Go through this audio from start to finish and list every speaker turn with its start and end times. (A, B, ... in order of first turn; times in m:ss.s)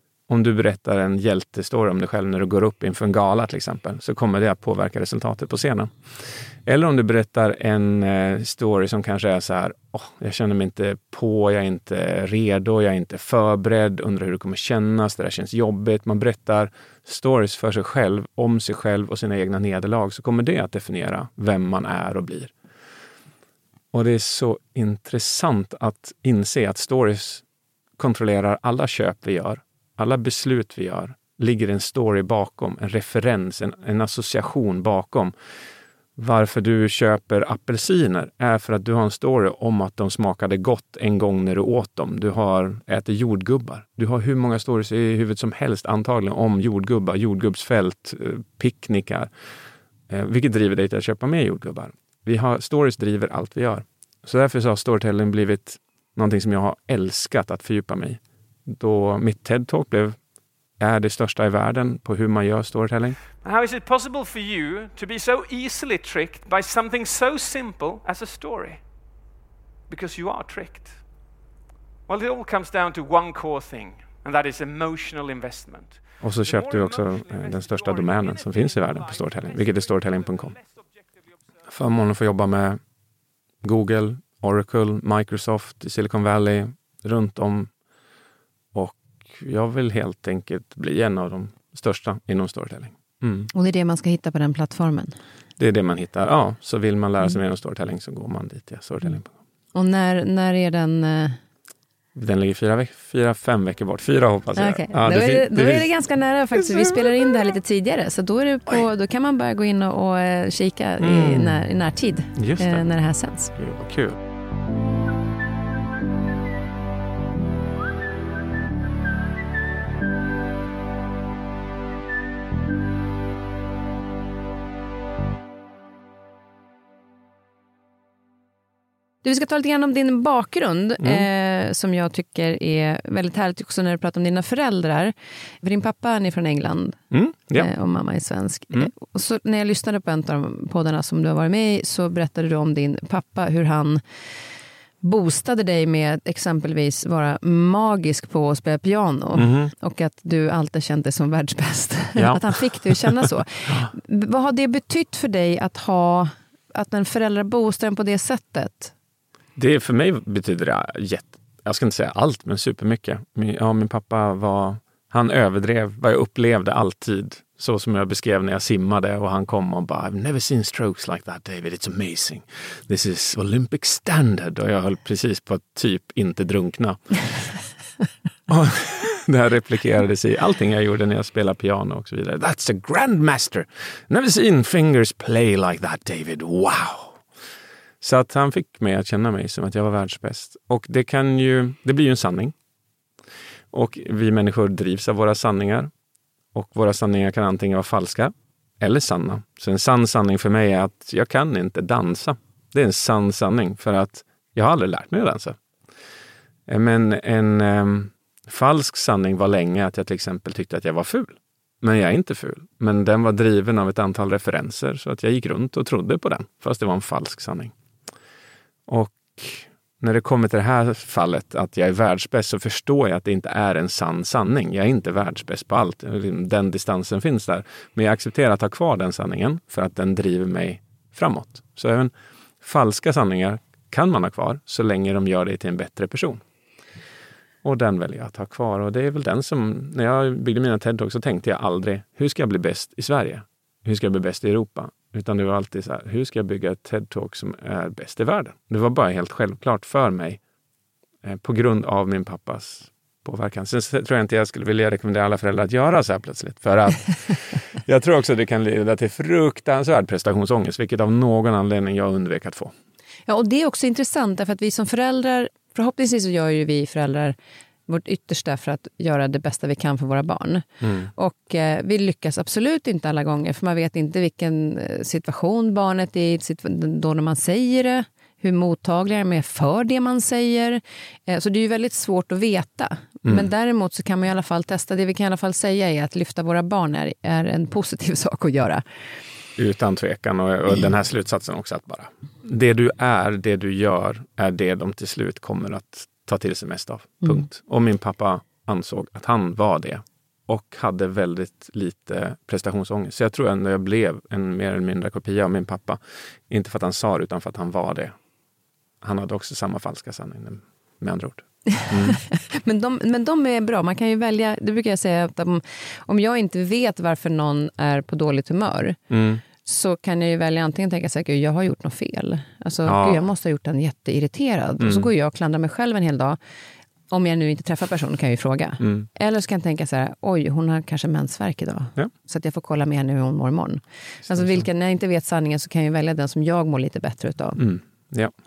0:00.3-0:05.9 A
0:06.6-0:22.5 A
0:23.9-0:27.4 A
0:28.0-0:35.3 A
0:36.2-0:49.3 A
0:50.1-1:00.2 A
1:00.8-1:03.2 A
1:03.4-1:08.8 B
1:09.9-1:11.0 B
1:12.1-1:18.4 B
1:16.2-1:20.6 A
1:21.6-1:22.8 A
1:23.6-1:27.7 A
1:28.7-1:33.5 A
1:33.5-1:35.1 C
1:35.6-1:39.3 A
1:39.7-1:41.4 C
1:42.1-1:45.9 A
1:44.6-1:53.5 C
1:46.6-1:47.1 A
1:51.0-1:51.6 A
1:52.4-1:52.8 A
1:53.6-1:54.2 A
2:09.2-2:17.0 C
2:11.0-2:11.2 A
2:17.1-2:17.7 A
2:17.5-2:24.0 C
2:25.0-2:38.9 C
2:29.4-2:29.7 A
2:32.2-2:32.4 A
2:39.6-2:57.3 A
2:58.5-3:07.2 A
3:08.0-3:12.5 A
3:13.7-3:15.9 A
3:16.5-3:25.6 A
3:26.7-3:37.7 A
3:38.9-3:56.4 A
3:57.6-4:10.4 A
4:11.2-4:22.7 A
4:23.3-4:27.4 C
4:27.9-4:48.8 C
4:30.8-4:31.1 A
4:49.6-5:08.1 A
5:09.0-5:12.2 A
5:11.8-5:19.0 C
5:19.1-5:19.4 A
5:19.6-5:26.4 C
5:22.8-5:23.2 A
5:24.8-5:25.1 A
5:27.1-5:37.6 C
5:28.8-5:29.1 A
5:34.2-5:34.6 A
5:37.6-5:38.3 A